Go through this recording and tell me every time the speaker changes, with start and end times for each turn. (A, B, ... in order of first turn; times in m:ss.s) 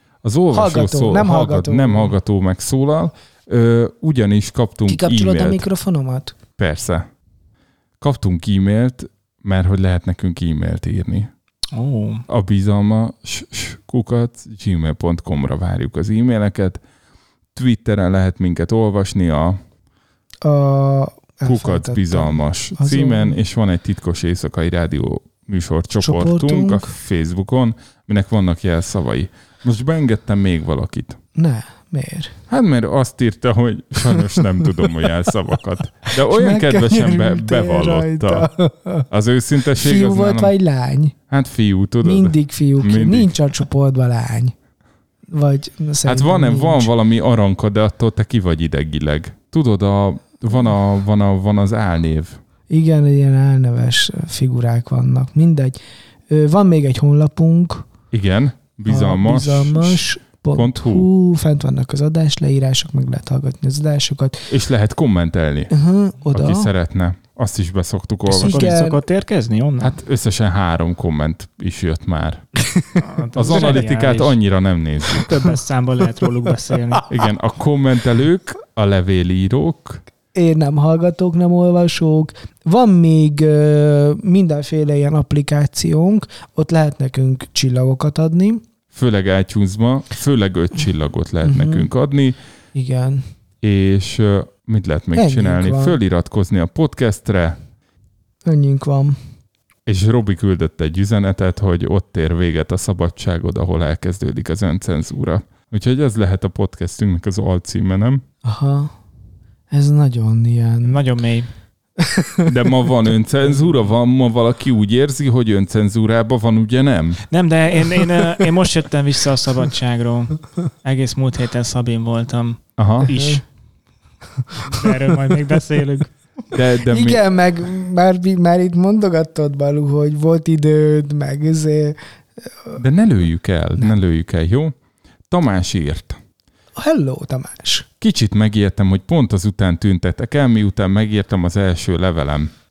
0:00.2-0:05.6 A
0:00.5-0:02.2 B
0:04.9-0:06.4 B
0:06.6-0:07.0 A
0:08.0-0:11.3 A
0:11.7-0:12.2 C
0:12.3-0:16.8 A
0:17.5-0:19.6 A
0:20.4-0:23.4 B
0:21.4-0:31.2 A
0:26.0-0:26.9 B
0:31.4-0:32.3 B
0:32.5-0:38.5 A
0:36.3-0:39.0 B
0:39.1-0:40.5 A
0:39.8-0:41.1 B
0:41.3-0:43.3 A
0:42.0-0:44.5 B
0:45.3-0:46.9 B
0:46.0-0:52.4 A
0:52.7-0:55.8 B
0:56.3-0:57.9 B
0:58.1-1:01.1 A
0:58.8-1:04.5 B
1:04.5-1:05.7 A
1:05.7-1:06.7 B
1:06.3-1:08.8 A
1:08.3-1:10.0 C
1:08.4-1:09.0 B
1:09.8-1:12.5 A
1:12.6-1:13.8 B
1:13.0-1:14.4 C
1:13.3-1:15.3 A
1:15.1-1:17.0 C
1:16.2-1:17.0 B
1:17.1-1:20.0 A
1:20.3-1:28.6 B
1:28.9-1:32.4 A
1:31.4-1:31.9 B
1:32.7-1:33.3 B
1:33.6-1:37.6 A
1:35.1-1:36.0 B
1:38.4-1:39.2 B
1:39.8-1:48.2 A
1:48.4-1:48.9 B
1:49.7-1:51.0 B
1:50.8-1:51.5 C
1:52.0-1:52.4 B
1:52.4-1:57.2 A
1:57.3-2:03.4 C
2:02.8-2:03.1 A
2:03.1-2:03.4 B
2:04.6-2:06.2 C
2:06.5-2:07.2 A
2:06.9-2:12.8 B
2:12.8-2:14.7 A
2:15.3-2:16.2 A
2:16.8-2:17.8 B
2:18.0-2:22.5 A